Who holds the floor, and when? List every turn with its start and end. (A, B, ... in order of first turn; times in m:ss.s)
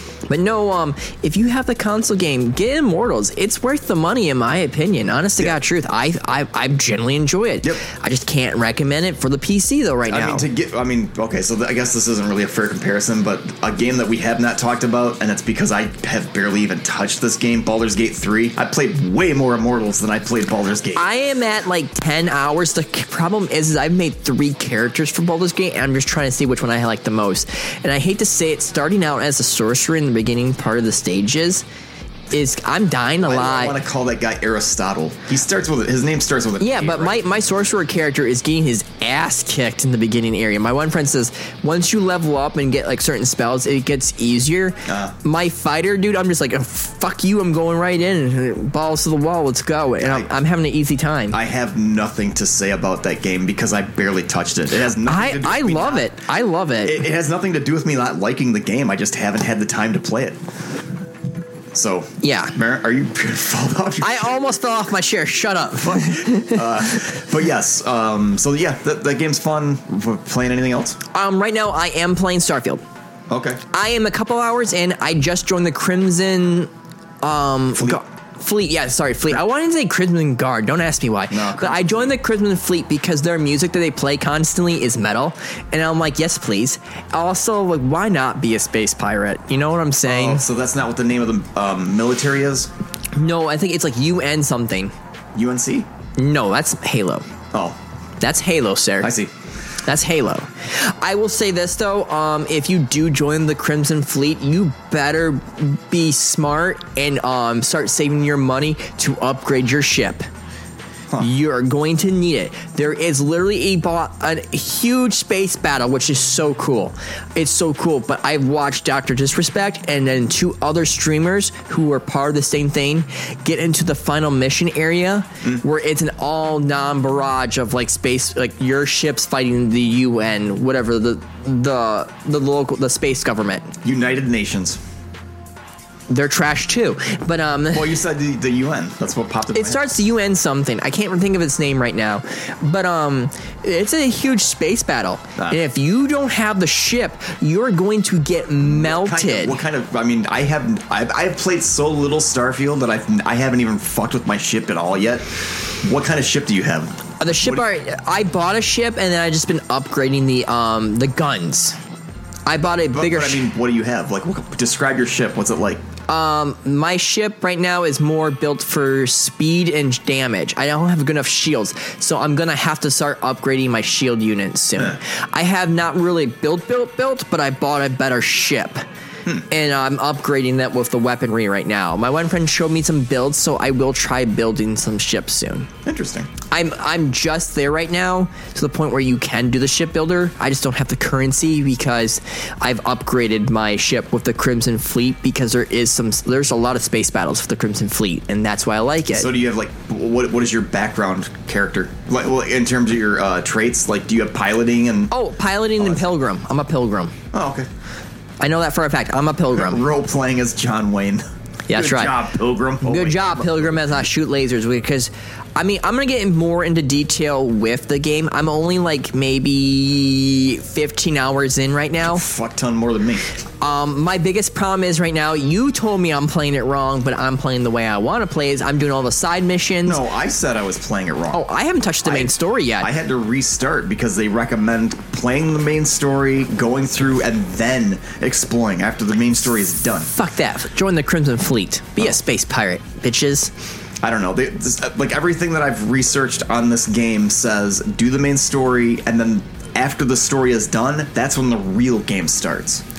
0:00.3-0:10.4 A
0:10.1-0:21.1 B
0:20.9-0:31.6 A
0:32.3-0:33.8 A
0:33.2-0:37.3 B
0:36.6-0:51.4 A
0:44.9-0:45.1 B
0:50.0-0:50.3 B
0:51.3-0:56.1 B
0:55.0-0:57.0 A
0:56.8-1:00.4 B
1:01.7-1:04.3 B
1:02.2-1:02.5 A
1:04.0-1:06.6 A
1:05.8-1:11.0 B
1:11.1-1:12.8 A
1:13.3-1:13.6 B
1:13.7-1:16.7 A
1:17.2-1:30.4 A
1:17.7-1:18.0 B
1:21.3-1:22.2 B
1:30.0-1:32.7 B
1:33.1-1:34.9 A
1:35.3-1:35.9 B
1:36.2-1:37.2 A
1:37.5-1:37.8 B
1:38.2-1:39.1 A
1:39.0-1:39.3 B
1:39.8-1:50.2 A
1:51.2-2:13.7 A
2:13.8-2:14.8 B
2:16.1-2:17.9 A
2:17.7-2:19.9 B
2:19.5-2:29.6 A
2:28.6-2:37.6 B
2:37.2-2:41.8 A
2:42.4-2:43.4 A
2:42.9-2:45.8 B
2:46.1-2:58.8 A
2:59.5-3:05.7 A
3:05.8-3:06.3 B
3:06.5-3:19.3 A
3:19.1-3:25.1 B
3:25.1-3:27.1 A
3:25.8-3:26.0 B
3:27.3-3:27.7 B
3:28.4-3:29.8 A
3:29.5-3:34.0 B
3:31.7-3:32.2 A
3:32.8-3:42.2 A
3:42.0-3:43.2 B
3:43.6-3:50.0 A
3:49.8-3:51.4 B
3:51.3-3:52.9 A
3:52.0-4:00.1 B
4:00.1-4:03.5 A
4:04.0-4:12.8 B